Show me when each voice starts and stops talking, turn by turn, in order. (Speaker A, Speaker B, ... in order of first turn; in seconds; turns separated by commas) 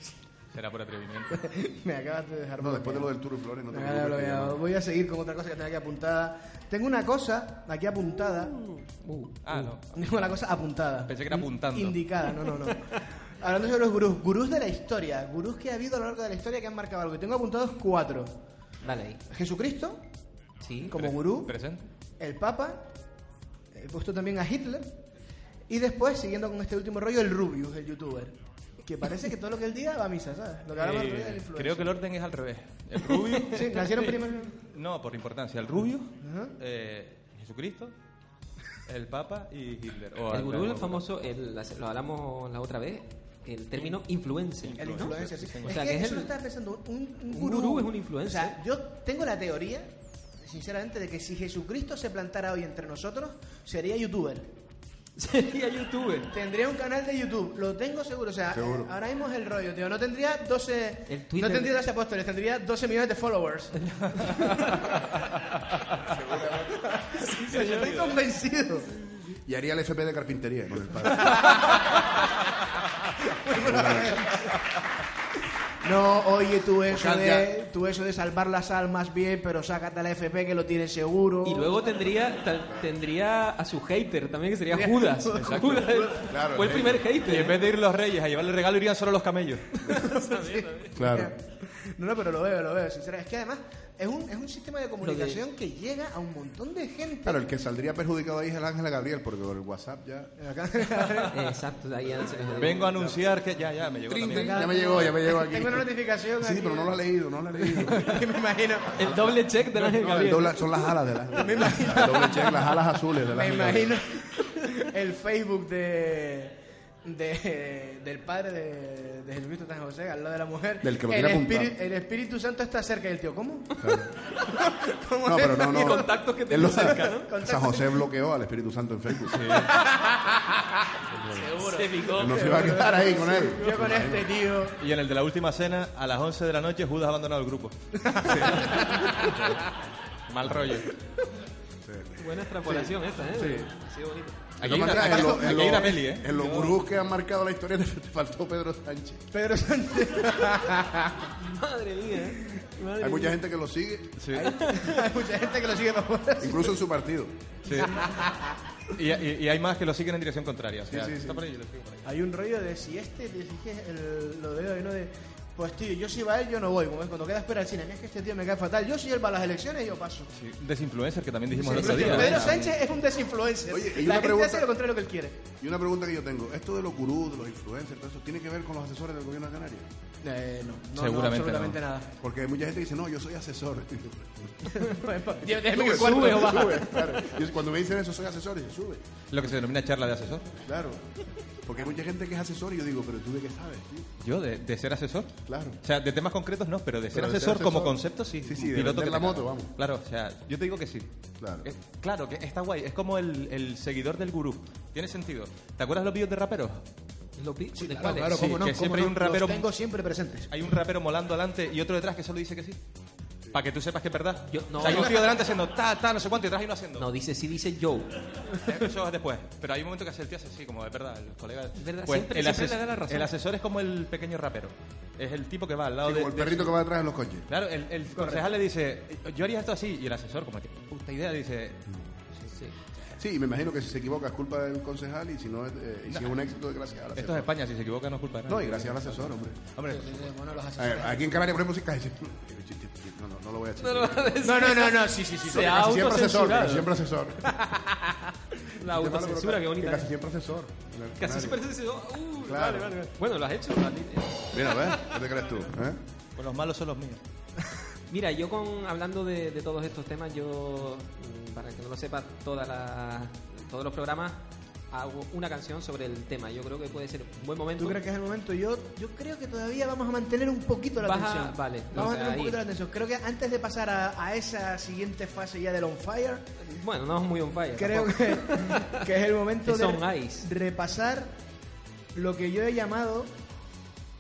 Speaker A: 0.5-1.4, Speaker B: 1.3-3.1, Speaker C: 2.6-4.6, Speaker B: 3.7-8.6, Speaker D: 8.7-9.4, Speaker A: 9.4-10.0, Speaker B: 9.5-18.3, Speaker A: 11.1-12.0, Speaker D: 18.8-19.2, Speaker B: 19.3-20.0, Speaker D: 20.6-20.9, Speaker B: 20.9-21.5, Speaker A: 20.9-21.9, Speaker B: 22.2-22.9, Speaker B: 23.8-24.9, Speaker B: 25.7-31.9, Speaker A: 30.7-37.9, Speaker D: 33.3-33.6, Speaker B: 33.5-34.6, Speaker B: 36.2-36.5, Speaker A: 38.9-41.0, Speaker D: 40.3-45.0, Speaker A: 44.6-45.9, Speaker B: 44.8-54.5, Speaker D: 45.6-46.3, Speaker D: 47.3-48.6, Speaker D: 55.2-56.3, Speaker B: 56.3-64.9, Speaker C: 58.5-58.9, Speaker D: 61.1-61.8, Speaker D: 64.3-64.8, Speaker C: 66.0-66.9, Speaker B: 66.7-68.9, Speaker D: 67.3-68.1, Speaker C: 69.5-71.5, Speaker B: 71.2-72.0, Speaker B: 73.2-74.7, Speaker C: 73.5-74.3, Speaker B: 75.8-81.8, Speaker C: 76.9-77.5, Speaker D: 81.4-87.6, Speaker B: 84.7-86.0, Speaker A: 85.4-85.7, Speaker C: 86.0-87.0, Speaker A: 86.6-89.9, Speaker D: 89.8-91.0, Speaker B: 89.9-97.4, Speaker C: 90.9-91.3, Speaker D: 95.0-95.4, Speaker C: 97.2-100.4, Speaker B: 100.4-101.4, Speaker D: 101.3-102.9, Speaker C: 102.1-103.2, Speaker A: 102.6-105.1, Speaker C: 104.1-108.2, Speaker B: 104.1-107.0, Speaker B: 107.6-109.2, Speaker D: 108.9-110.8, Speaker C: 109.9-114.0, Speaker B: 111.3-128.0, Speaker C: 120.8-121.7, Speaker C: 123.8-124.1, Speaker C: 125.2-129.6, Speaker D: 125.7-127.3, Speaker A: 129.3-129.8, Speaker B: 129.7-130.7, Speaker C: 131.1-131.6, Speaker B: 131.4-134.8, Speaker D: 131.5-133.7, Speaker C: 132.1-134.3, Speaker A: 134.8-139.7, Speaker B: 138.1-139.3, Speaker C: 138.2-138.8, Speaker A: 140.3-140.9, Speaker C: 141.8-143.7, Speaker D: 142.2-144.5, Speaker C: 144.6-149.3, Speaker A: 144.6-146.3, Speaker B: 144.8-145.9, Speaker D: 146.3-146.8, Speaker B: 149.3-151.3, Speaker D: 151.4-153.4, Speaker C: 153.0-154.4, Speaker A: 154.2-154.6, Speaker B: 154.4-156.8, Speaker D: 154.4-155.1, Speaker C: 156.4-157.4, Speaker A: 157.7-158.1, Speaker B: 157.7-158.6, Speaker A: 158.9-162.1, Speaker C: 160.9-161.4, Speaker B: 162.1-170.3, Speaker A: 170.3-172.8, Speaker B: 171.5-175.4, Speaker C: 171.8-172.7, Speaker C: 173.7-174.7, Speaker C: 175.6-179.9, Speaker B: 180.2-182.1, Speaker A: 181.0-181.8, Speaker C: 182.2-184.7, Speaker B: 184.7-187.2, Speaker C: 185.5-189.0, Speaker D: 185.8-186.9, Speaker A: 189.3-190.6, Speaker C: 190.6-191.1, Speaker C: 191.6-194.1, Speaker A: 194.2-201.1, Speaker C: 195.5-195.8, Speaker C: 197.1-199.7, Speaker C: 201.4-201.7, Speaker A: 201.6-206.8, Speaker D: 207.4-208.5, Speaker B: 207.8-210.5, Speaker A: 208.3-209.7, Speaker A: 210.5-212.8, Speaker A: 213.5-217.1, Speaker D: 214.5-215.3, Speaker D: 217.0-218.1, Speaker A: 218.5-226.8, Speaker D: 221.8-223.3, Speaker C: 226.0-227.5, Speaker A: 227.5-231.9, Speaker B: 228.1-228.5, Speaker D: 232.5-232.8, Speaker C: 233.2-237.5, Speaker A: 236.1-236.4, Speaker A: 237.2-240.3, Speaker C: 238.5-239.7, Speaker B: 239.9-241.3, Speaker C: 240.8-244.5, Speaker D: 243.8-246.9, Speaker B: 244.4-245.9, Speaker C: 245.4-247.5, Speaker B: 247.6-248.2, Speaker D: 248.7-250.1, Speaker C: 248.8-251.6, Speaker D: 251.2-255.3, Speaker C: 252.4-253.1, Speaker C: 254.5-256.0, Speaker A: 256.4-257.2, Speaker D: 258.1-268.0, Speaker B: 267.8-276.5, Speaker D: 271.0-272.6, Speaker D: 276.6-279.1, Speaker B: 277.8-281.3, Speaker D: 279.6-280.5, Speaker B: 282.1-283.3